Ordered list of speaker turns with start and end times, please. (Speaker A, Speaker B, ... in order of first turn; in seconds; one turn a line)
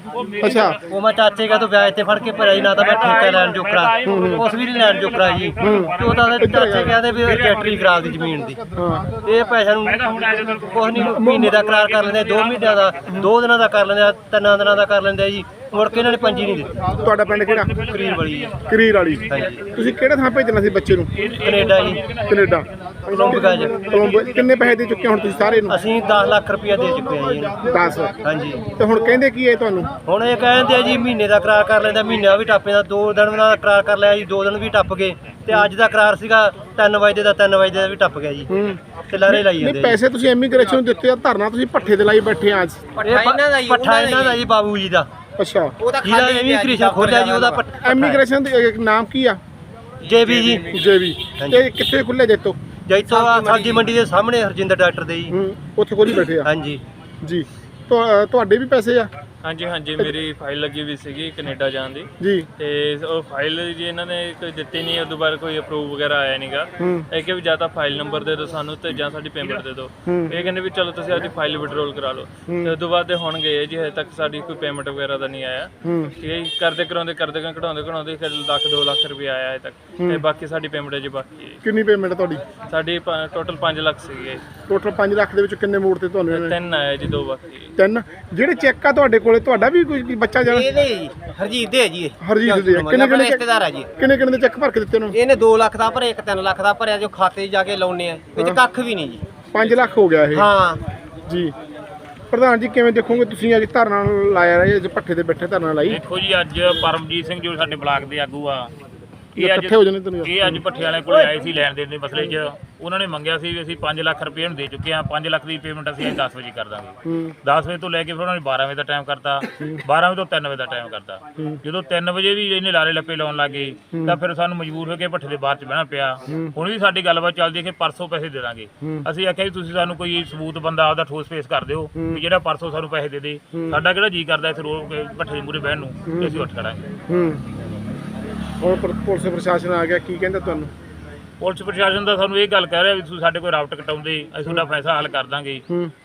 Speaker A: 0.1-0.8
Speaker B: 0.4-0.8
Speaker C: 0.9-10.1
Speaker A: 2.5-7.9
Speaker B: 4.0-4.4
Speaker B: 5.6-7.0
Speaker B: 8.8-9.1
Speaker A: 9.8-13.2
Speaker C: 10.6-16.8
Speaker B: 10.9-11.5
Speaker B: 16.9-17.8
Speaker A: 17.3-19.8
Speaker C: 17.7-18.5
Speaker B: 18.7-21.1
Speaker C: 19.3-19.6
Speaker A: 21.1-25.2
Speaker C: 21.4-22.0
Speaker B: 22.3-25.8
Speaker C: 23.3-23.8
Speaker C: 25.6-28.7
Speaker B: 27.6-28.1
Speaker B: 28.8-29.9
Speaker C: 30.1-40.0
Speaker B: 38.5-42.8
Speaker D: 43.0-44.4
Speaker C: 43.0-45.1
Speaker B: 45.4-45.8
Speaker D: 45.8-47.6
Speaker C: 46.0-48.2
Speaker B: 47.8-49.4
Speaker C: 50.0-50.7
Speaker B: 50.7-52.6
Speaker C: 51.4-51.7
Speaker C: 52.9-55.4
Speaker D: 53.1-53.9
Speaker B: 55.3-56.5
Speaker C: 56.2-56.8
Speaker B: 57.2-59.1
Speaker E: 59.4-81.6
Speaker B: 62.2-62.5
Speaker B: 66.8-67.1
Speaker B: 70.0-70.4
Speaker B: 72.5-72.8
Speaker B: 75.8-76.1
Speaker B: 80.0-80.2
Speaker B: 81.6-82.4
Speaker E: 82.6-84.4
Speaker B: 84.7-86.6
Speaker E: 86.3-87.7
Speaker B: 87.8-90.7
Speaker D: 90.5-93.9
Speaker B: 92.2-93.5
Speaker B: 94.0-95.2
Speaker D: 95.1-99.2
Speaker B: 99.5-100.5
Speaker D: 100.3-100.8
Speaker B: 101.3-101.5
Speaker B: 102.3-106.0
Speaker A: 105.8-108.7
Speaker B: 109.4-110.6
Speaker A: 109.4-136.9
Speaker B: 117.0-117.4
Speaker B: 119.5-119.8
Speaker B: 123.9-124.2
Speaker B: 126.3-126.5
Speaker B: 128.8-129.1
Speaker B: 132.0-132.2
Speaker B: 133.6-133.8
Speaker B: 136.1-136.5
Speaker B: 137.1-137.4
Speaker B: 138.6-140.7
Speaker A: 141.4-145.6